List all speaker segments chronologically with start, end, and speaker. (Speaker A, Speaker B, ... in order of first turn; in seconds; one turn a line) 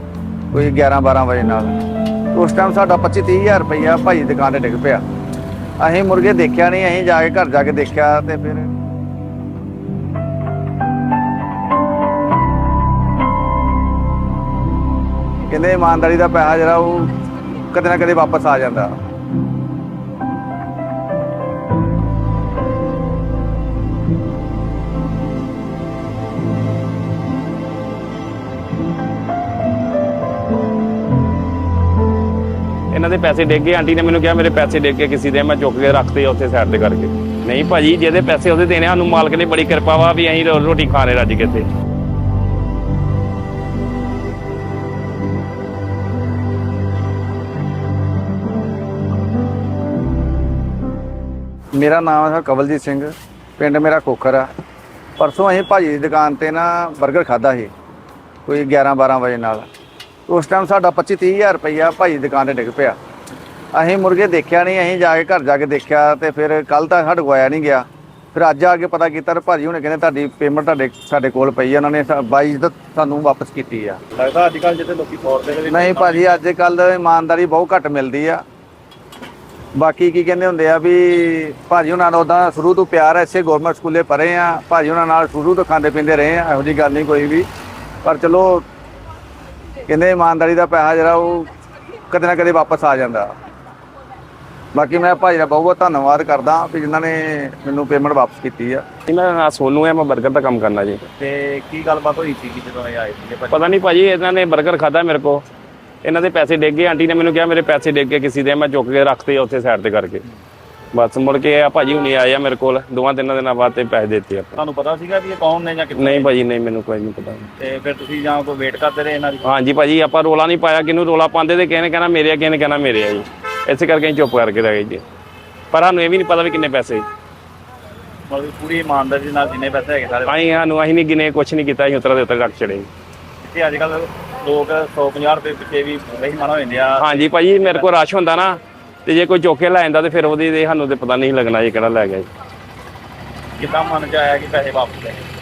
Speaker A: 0.5-1.8
Speaker A: 2.3-5.0
Speaker A: 5.8-8.7
Speaker A: 15.5-17.2
Speaker A: 17.7-19.0
Speaker B: 32.9-41.7
Speaker A: 51.8-54.5
Speaker A: 55.2-57.7
Speaker A: 58.5-59.7
Speaker A: 60.3-63.0
Speaker A: 63.7-74.0
Speaker C: 74.1-76.4
Speaker A: 75.7-78.4
Speaker A: 79.8-87.5
Speaker A: 88.0-88.7
Speaker A: 89.9-91.5
Speaker A: 92.1-93.3
Speaker A: 94.7-98.9
Speaker B: 99.1-101.0
Speaker C: 101.2-103.8
Speaker B: 103.5-105.4
Speaker B: 106.1-110.2
Speaker B: 111.0-114.5
Speaker C: 114.6-116.3
Speaker B: 116.0-117.5
Speaker C: 117.6-119.5
Speaker B: 119.6-125.0
Speaker B: 125.7-127.0
Speaker C: 128.3-130.5
Speaker B: 130.3-132.9
Speaker C: 133.4-137.9
Speaker B: 137.0-138.6
Speaker B: 139.1-142.3
Speaker C: 143.6-145.2